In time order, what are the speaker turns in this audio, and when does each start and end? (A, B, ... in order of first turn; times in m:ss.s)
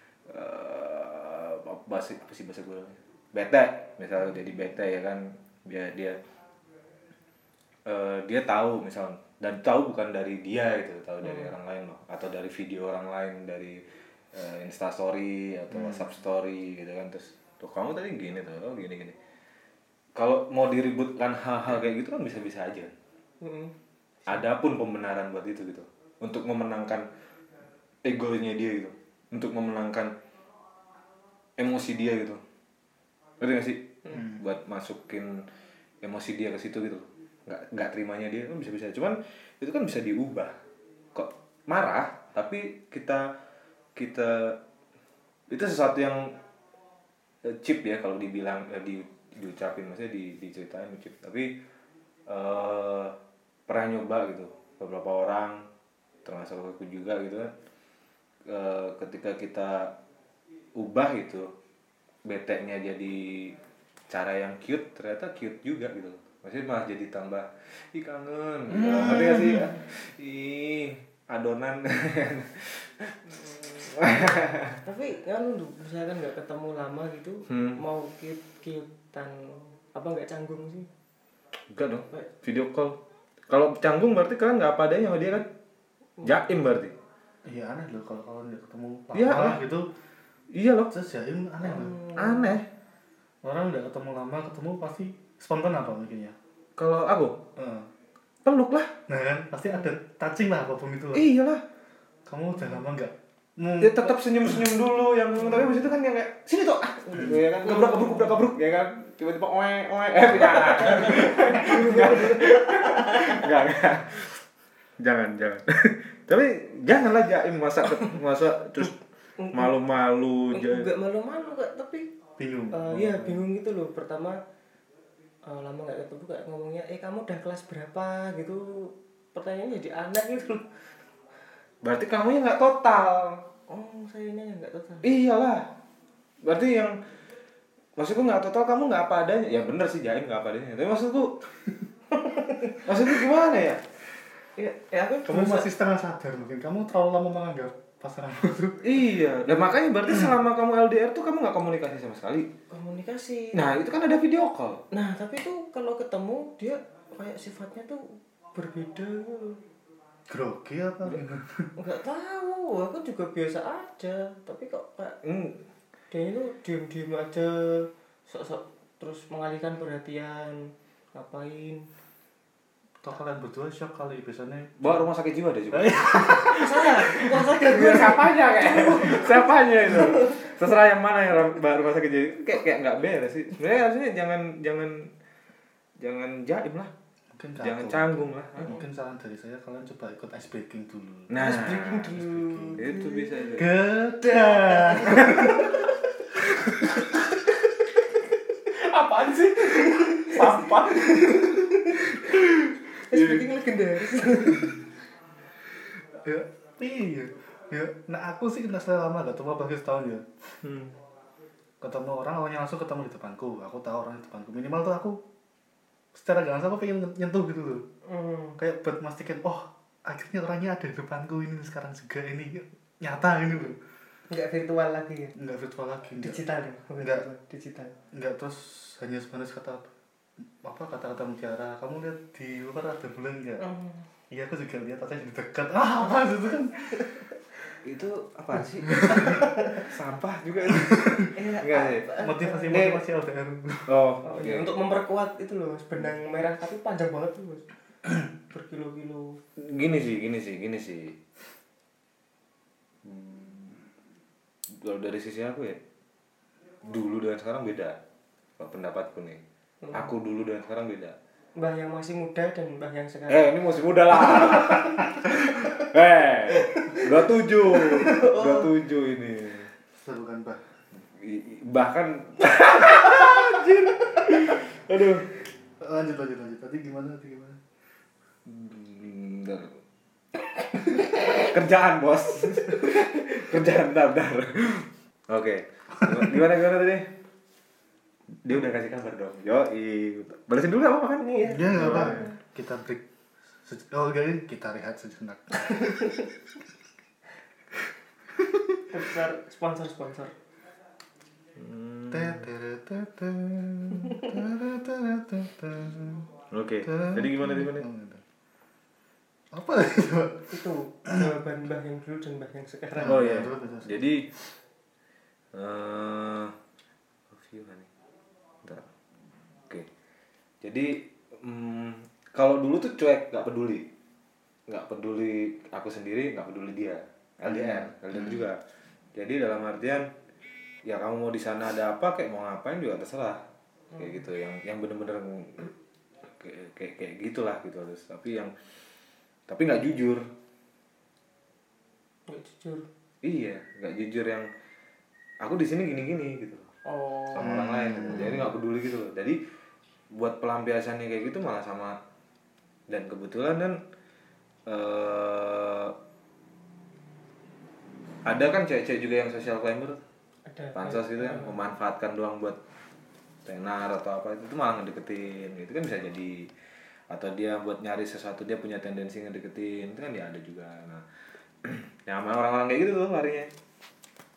0:00.2-0:06.2 A
0:07.8-0:19.2 A
0:15.7-0:16.1 B
0:20.2-0:22.9 A
0:23.4-0:23.7 C
0:24.3-0:27.0 A
0:28.0-0:30.1 A
0:31.6-0:32.4 A
0:33.4-0:35.4 A
0:36.0-0:40.6 A
0:41.1-0:43.3 A
0:44.0-0:44.6 A
0:45.5-0:46.4 A
0:47.4-0:51.5 A
0:52.3-0:53.1 A
0:53.7-0:55.6 A
0:56.2-0:57.5 A
0:58.5-0:59.9 A
1:00.8-1:01.5 A
1:02.2-1:03.5 A
1:04.1-1:14.8 A
1:08.8-1:09.6 B
1:13.9-1:20.9 C
1:17.5-1:17.8 A
1:21.7-1:23.0 A
1:23.5-1:25.5 A
1:26.2-1:26.9 A
1:27.4-1:29.9 B
1:29.1-1:29.6 A
1:30.5-1:30.9 A
1:30.9-1:32.0 B
1:31.7-1:32.6 C
1:32.1-1:32.6 A
1:33.4-1:36.3 B
1:36.8-1:37.4 A
1:37.6-1:37.9 B
1:38.4-1:39.0 A
1:39.1-1:41.3 B
1:41.1-1:41.6 A
1:42.3-1:44.1 B
1:43.8-1:54.4 A
1:47.6-1:48.4 C
1:50.6-1:53.4 C
1:55.0-1:59.0 A
1:59.4-1:59.7 C
1:59.5-2:00.9 A
2:00.5-2:02.1 C
2:02.4-2:03.4 B
2:02.7-2:04.4 C
2:05.4-2:11.0 C
2:11.8-2:13.4 A
2:13.7-2:15.1 C
2:15.0-2:15.6 A
2:16.4-2:17.0 A
2:18.0-2:21.4 A
2:22.5-2:22.7 C
2:22.8-2:23.8 A
2:24.6-2:25.7 C
2:25.2-2:28.9 B
2:28.8-2:32.5 A
2:32.7-2:33.7 C
2:33.5-2:34.8 A
2:34.9-2:39.6 C
2:40.3-2:41.7 B
2:41.8-2:45.2 C
2:45.2-2:45.6 A
2:46.1-2:51.9 C
2:53.0-2:54.9 B
2:54.8-3:05.1 A
2:55.7-2:56.6 B
2:56.4-3:00.3 C
3:06.0-3:06.9 A
3:07.3-3:12.8 B
3:07.6-3:08.8 A
3:11.3-3:12.1 A
3:11.4-3:13.6 C
3:12.8-3:13.7 A
3:13.6-3:15.8 B
3:14.2-3:15.8 C
3:15.3-3:15.5 A
3:18.7-3:21.6 A
3:19.9-3:22.1 C
3:23.1-3:24.9 C
3:23.1-3:23.4 A
3:26.1-3:30.4 B
3:30.6-3:30.9 A
3:31.8-3:35.2 B
3:36.1-3:37.8 B
3:38.0-3:38.6 C
3:38.6-3:43.8 B
3:44.3-3:45.3 C
3:45.4-3:46.4 B
3:46.2-3:47.9 C
3:47.0-3:47.2 B
3:48.1-3:49.9 B
3:50.6-3:53.7 B
3:53.6-3:54.1 C
3:54.3-3:57.1 B
3:57.8-4:02.1 A
3:59.0-3:59.3 B
4:00.9-4:01.3 B
4:01.4-4:02.8 C
4:02.1-4:03.9 B
4:02.7-4:03.0 A
4:03.9-4:04.7 A
4:04.2-4:07.6 C
4:08.5-4:09.4 C
4:09.6-4:11.2 A
4:13.0-4:13.8 A
4:14.7-4:15.8 A
4:16.8-4:18.0 A
4:18.6-4:21.2 A
4:19.8-4:20.1 C
4:21.5-4:23.6 C
4:23.3-4:29.7 A
4:24.2-4:24.6 C
4:27.9-4:28.7 C
4:29.9-4:30.7 B
4:31.0-4:35.4 A
4:35.8-4:37.6 B
4:38.4-4:39.7 A
4:40.5-4:47.1 A
4:48.4-4:52.3 A
4:51.2-4:52.3 C
4:51.4-4:53.0 B
4:53.6-4:55.9 B
4:58.5-4:58.8 B
4:58.9-5:00.3 C
5:01.6-5:02.5 A
5:02.1-5:06.2 B
5:06.5-5:07.9 A
5:06.8-5:08.2 B
5:09.5-5:10.5 B
5:10.5-5:13.3 C
5:13.0-5:14.0 B
5:13.0-5:14.3 A
5:15.5-5:16.5 A
5:17.3-5:17.9 A
5:20.6-5:23.8 A
5:24.7-5:28.6 A
5:27.5-5:28.4 B
5:29.2-5:30.1 A
5:30.8-5:33.4 A
5:34.0-5:35.7 A
5:36.3-5:38.5 A
5:39.5-5:40.2 A
5:42.3-5:42.8 C
5:43.2-5:44.5 A
5:45.4-5:46.7 A
5:46.8-5:48.4 C
5:47.3-5:49.4 A
5:47.4-5:48.4 B
5:50.1-5:51.9 A
5:52.9-5:53.8 A
5:54.7-5:55.9 A
5:58.2-6:00.0 A
6:00.5-6:01.6 C
6:00.7-6:02.6 A
6:03.4-6:06.5 A
6:07.1-6:11.0 A
6:11.6-6:13.5 A